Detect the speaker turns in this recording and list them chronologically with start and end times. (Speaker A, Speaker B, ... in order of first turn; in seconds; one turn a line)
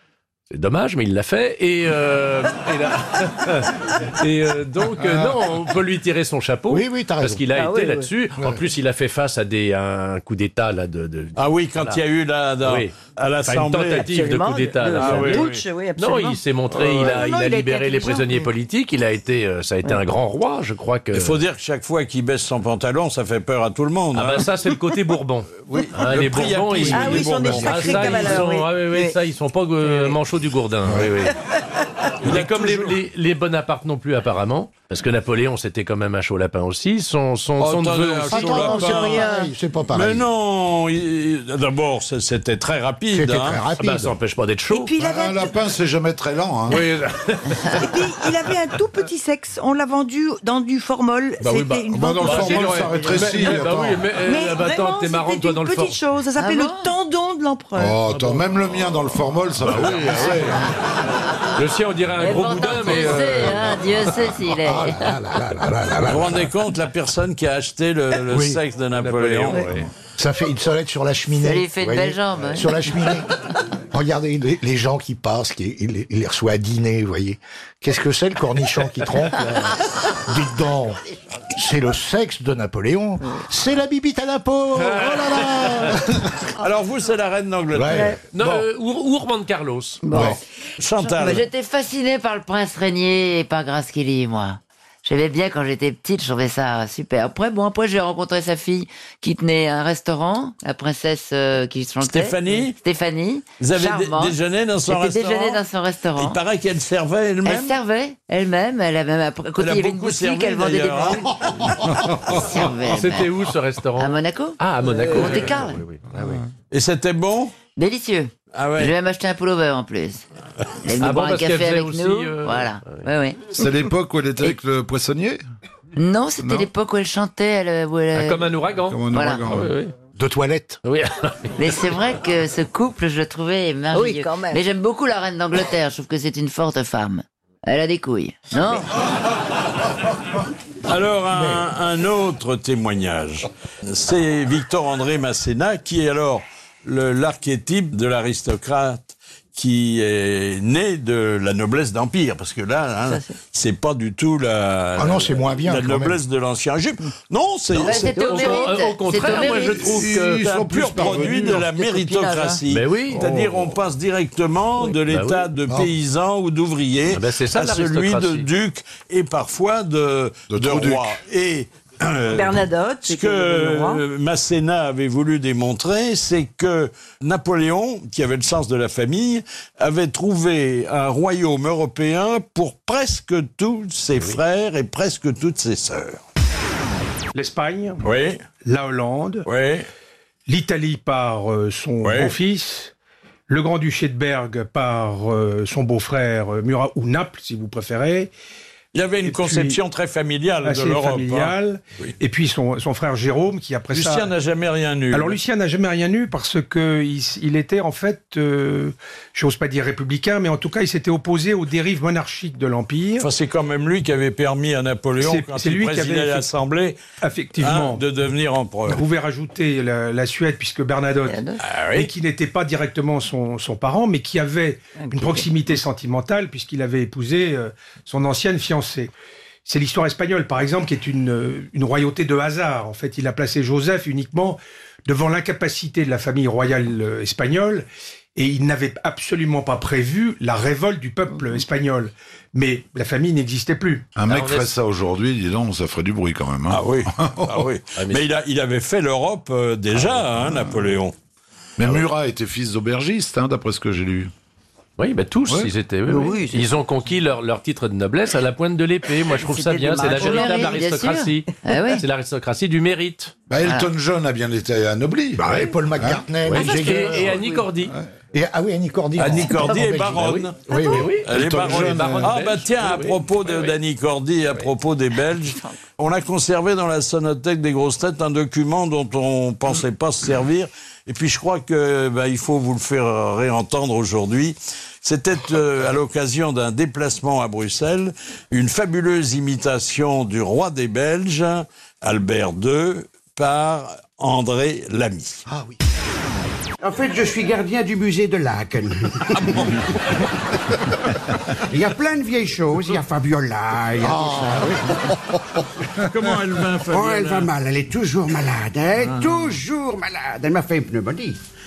Speaker A: 0.5-12.0
Speaker B: 5.0-5.4
Speaker B: 6.7-7.4
Speaker C: 7.5-8.1
Speaker D: 11.3-14.2
Speaker A: 12.6-12.9
Speaker A: 13.4-21.4
Speaker E: 14.1-14.9
Speaker C: 14.2-18.5
Speaker D: 14.9-15.6
Speaker D: 21.1-24.5
Speaker A: 24.1-31.4
Speaker D: 25.6-28.4
Speaker C: 26.9-29.2
Speaker C: 29.8-30.1
Speaker A: 32.2-39.5
Speaker D: 32.2-33.0
Speaker D: 37.6-39.4
Speaker B: 38.3-40.3
Speaker D: 39.9-43.6
Speaker B: 43.1-44.1
Speaker A: 43.7-44.9
Speaker C: 44.7-45.6
Speaker F: 45.0-46.8
Speaker A: 46.7-48.3
Speaker C: 47.8-53.6
Speaker F: 51.4-54.0
Speaker A: 52.2-56.0
Speaker C: 54.2-58.0
Speaker E: 56.4-56.9
Speaker F: 57.8-60.7
Speaker A: 58.1-58.5
Speaker A: 59.6-60.7
Speaker A: 61.5-63.8
Speaker E: 62.2-65.0
Speaker B: 64.6-66.5
Speaker D: 66.0-69.7
Speaker B: 68.3-68.6
Speaker A: 68.9-69.9
Speaker B: 70.2-73.3
Speaker E: 71.4-72.9
Speaker B: 73.9-81.0
Speaker B: 81.5-86.2
Speaker A: 84.7-85.9
Speaker D: 86.6-88.2
Speaker B: 87.7-88.6
Speaker C: 87.9-88.2
Speaker A: 88.2-90.1
Speaker C: 90.0-90.4
Speaker B: 90.1-90.4
Speaker D: 90.8-91.5
Speaker E: 91.0-106.4
Speaker D: 102.0-102.8
Speaker D: 103.6-105.6
Speaker D: 106.2-107.8
Speaker E: 107.4-111.4
Speaker D: 109.6-112.4
Speaker E: 112.2-113.4
Speaker A: 112.8-116.4
Speaker E: 114.0-115.8
Speaker D: 116.7-117.5
Speaker E: 117.8-120.2
Speaker D: 118.5-118.9
Speaker E: 120.8-123.5
Speaker A: 121.0-123.1
Speaker F: 123.5-125.4
Speaker E: 126.0-128.6
Speaker F: 126.4-126.7
Speaker A: 128.1-129.9
Speaker F: 128.9-129.7
Speaker E: 129.1-129.6
Speaker B: 130.2-130.8
Speaker A: 130.8-131.8
Speaker E: 131.6-138.9
Speaker C: 133.9-134.6
Speaker D: 140.9-158.5
Speaker B: 141.3-141.7
Speaker C: 153.1-153.3
Speaker B: 154.9-156.2
Speaker E: 157.8-159.9
Speaker A: 157.8-160.5
Speaker F: 159.6-161.7
Speaker D: 160.0-186.2
Speaker C: 161.7-162.6
Speaker A: 162.7-163.3
Speaker A: 164.9-165.5
Speaker A: 167.1-168.5
Speaker F: 170.5-171.2
Speaker C: 172.3-174.0
Speaker G: 187.3-188.0
Speaker D: 188.0-188.4
Speaker G: 188.6-189.5
Speaker D: 189.4-189.9
Speaker G: 190.5-192.9
Speaker D: 192.0-192.3
Speaker G: 193.5-198.3
Speaker D: 198.9-202.1
Speaker G: 199.2-199.8
Speaker G: 200.6-204.3
Speaker D: 203.9-205.4
Speaker G: 205.1-213.3
Speaker D: 213.2-217.0
Speaker G: 215.2-216.5
Speaker G: 217.2-218.0
Speaker D: 217.6-219.0
Speaker G: 218.9-229.1
Speaker C: 221.2-221.6
Speaker D: 221.6-222.1
Speaker C: 225.0-225.5
Speaker G: 229.6-244.1
Speaker F: 244.2-247.7
Speaker A: 244.3-244.7
Speaker D: 246.7-251.1
Speaker A: 247.9-248.2
Speaker F: 250.4-250.8
Speaker F: 251.8-254.3
Speaker A: 255.0-263.3
Speaker C: 256.1-256.7
Speaker C: 259.3-260.8
Speaker E: 260.0-262.0
Speaker F: 263.5-266.6
Speaker E: 263.6-263.9
Speaker B: 265.4-267.4
Speaker A: 266.4-267.9
Speaker C: 267.3-267.6
Speaker B: 268.3-271.1
Speaker D: 269.2-295.4
Speaker A: 269.4-273.8
Speaker F: 271.3-272.3
Speaker B: 295.5-295.8
Speaker H: 296.8-300.1
Speaker H: 301.7-304.9
Speaker B: 304.0-304.8
Speaker D: 305.9-307.5
Speaker H: 306.9-311.4